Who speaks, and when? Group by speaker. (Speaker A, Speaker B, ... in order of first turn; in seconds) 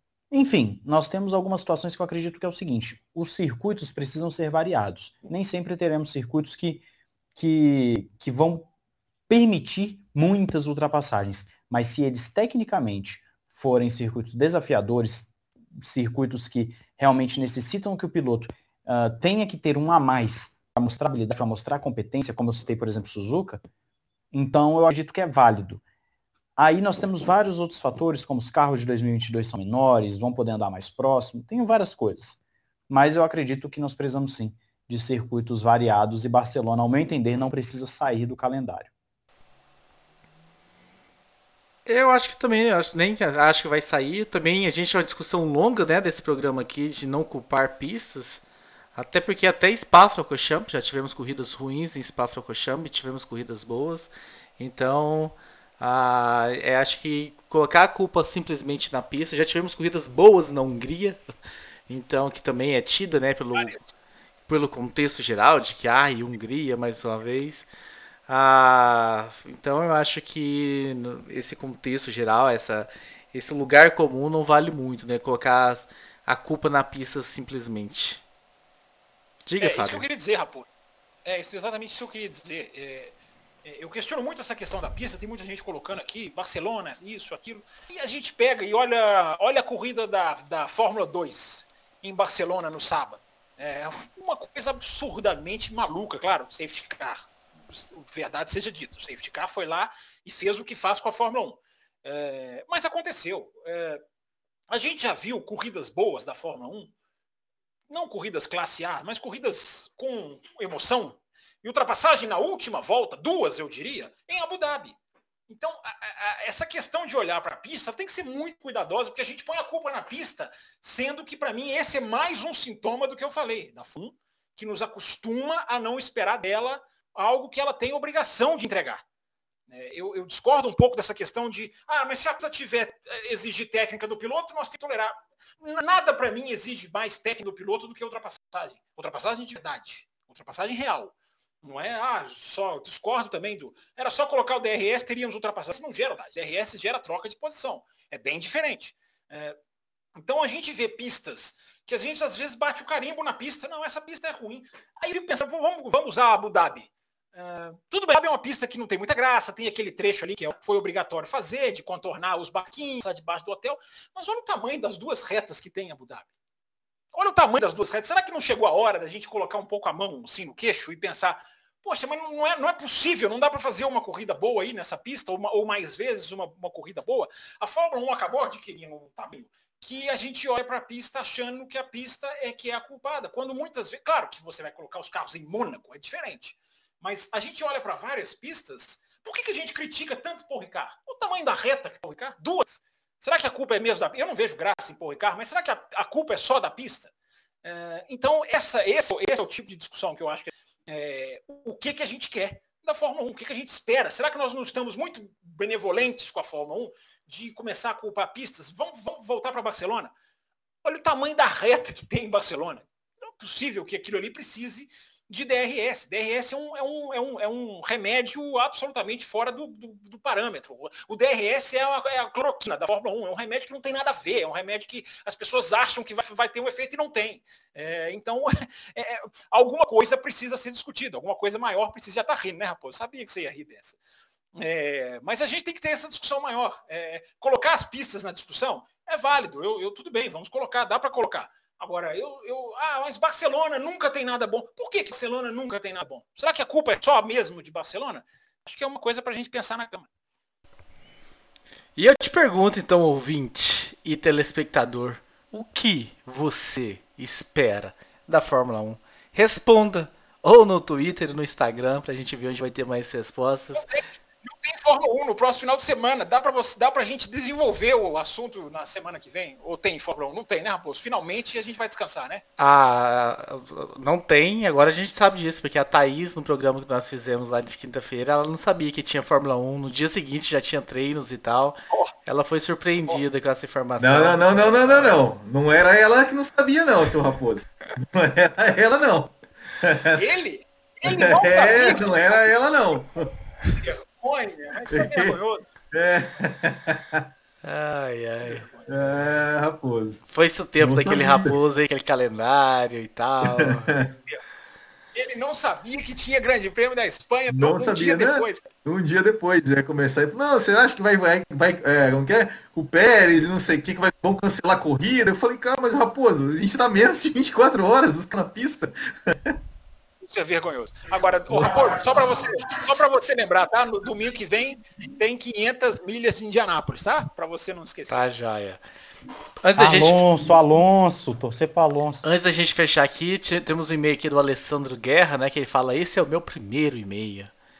Speaker A: 0.3-6.8, 7.4-8.7, 9.3-23.6, 24.3-25.8, 26.6-32.4, 32.9-38.9, 329.8-332.2
Speaker B: 41.9-48.4, 49.0-61.2, 61.9-63.8, 64.5-67.7, 68.3-78.2, 79.5-80.0, 252.0-263.9, 272.6-284.4, 297.6-298.7, 300.3-303.9, 328.1-328.8, 329.6-330.2, 332.2-337.5
Speaker C: 63.5-63.9, 79.6-80.7, 81.2-104.0, 104.7-106.9, 107.9-115.0, 115.5-129.0, 129.7-149.6, 150.2-166.3, 167.1-197.1, 197.6-210.1, 210.8-234.0, 234.6-250.1, 263.8-272.4, 284.6-285.2, 290.1-292.5, 293.7-295.6, 298.5-299.1, 305.1-308.6, 320.2-328.2
Speaker D: 284.0-290.2, 291.1-293.3, 294.9-295.4, 295.9-297.3, 298.9-300.2, 300.8-301.6, 303.5-304.1, 307.5-319.6